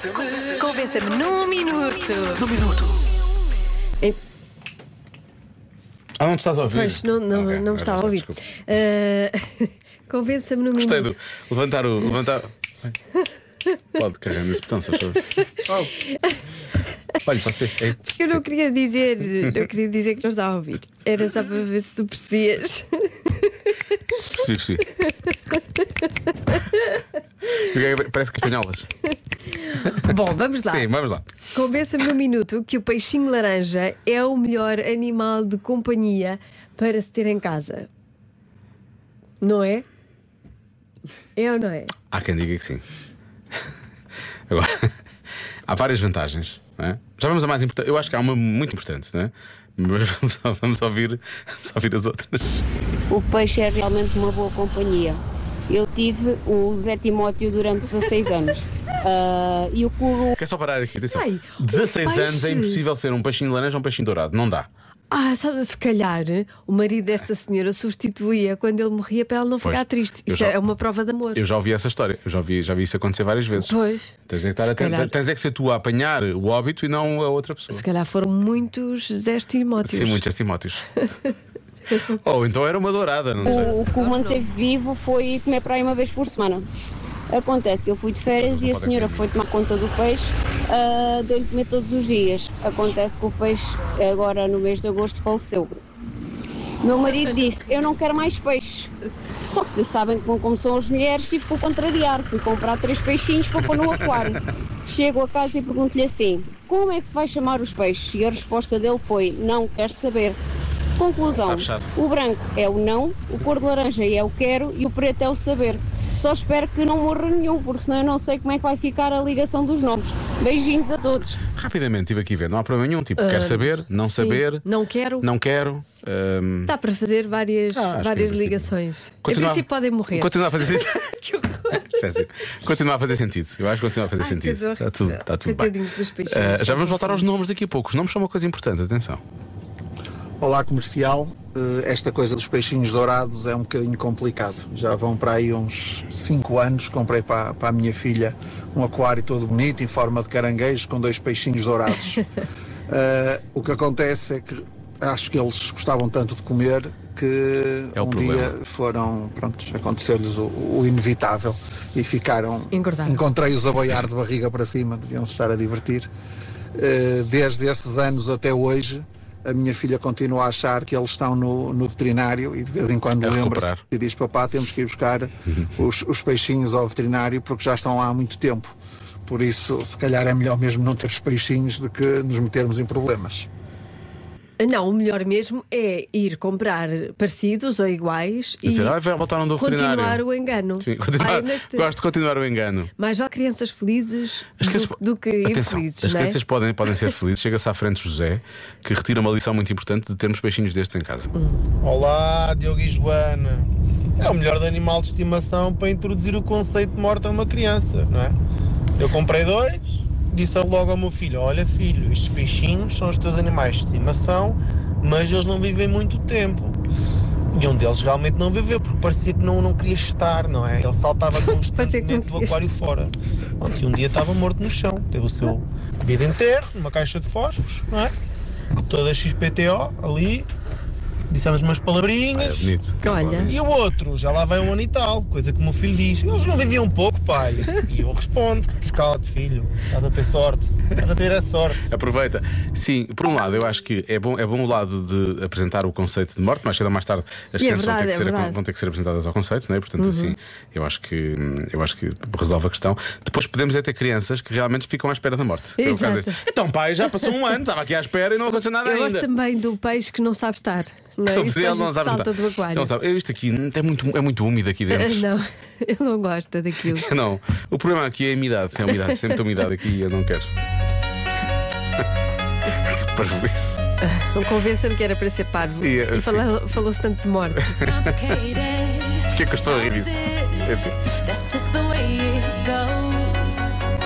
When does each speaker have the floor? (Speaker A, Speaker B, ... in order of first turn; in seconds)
Speaker A: 0.4-2.9, 6.7-11.1, 18.1-23.5, 25.0-25.6, 29.6-30.9, 31.5-37.9, 39.4-39.8, 41.4-41.9, 61.1-62.8, 65.1-71.4, 73.6-75.1, 77.7-80.2, 83.4-84.4, 123.2-125.3, 126.7-132.0, 134.2-137.3, 162.7-163.2, 184.6-189.0, 189.6-191.9, 193.0-196.4, 201.3-201.6, 221.4-222.6, 233.0-233.5, 247.6-248.6, 250.0-250.3, 255.8-256.4, 258.8-262.9, 264.9-267.1, 269.1-269.3, 274.0-279.1, 281.2-283.6
Speaker B: 6.2-8.4, 10.8-12.5, 13.9-15.3, 17.2-18.4, 24.2-24.9, 27.4-28.9, 29.8-31.3, 42.1-42.8, 44.5-44.9, 45.7-52.6, 60.3-64.7, 69.6-70.6, 71.3-73.8, 74.3-77.8, 79.8-80.8, 81.9-83.7, 88.4-89.3, 103.6-104.2, 111.3-111.9, 121.5-124.6, 125.2-126.7, 127.7-128.7, 129.2-130.9, 131.8-135.7, 136.2-139.2, 157.9-158.5, 173.2-173.8, 188.6-190.2, 190.8-192.9, 194.6-201.3, 232.3-233.5, 241.9-259.3, 261.3-265.3, 266.9-270.5, 272.7-273.8, 275.8-276.6, 277.6-278.4, 279.1-281.1
Speaker C: 53.1-60.4, 83.4-86.7, 87.3-95.8, 96.8-98.9, 99.4-110.4, 111.0-121.4
Speaker D: 140.4-152.2, 152.9-166.1, 166.7-178.7, 179.2-183.5
Speaker E: 201.8-208.4, 209.0-216.8, 217.5-228.1, 228.8-230.5, 231.3-232.7, 233.4-241.9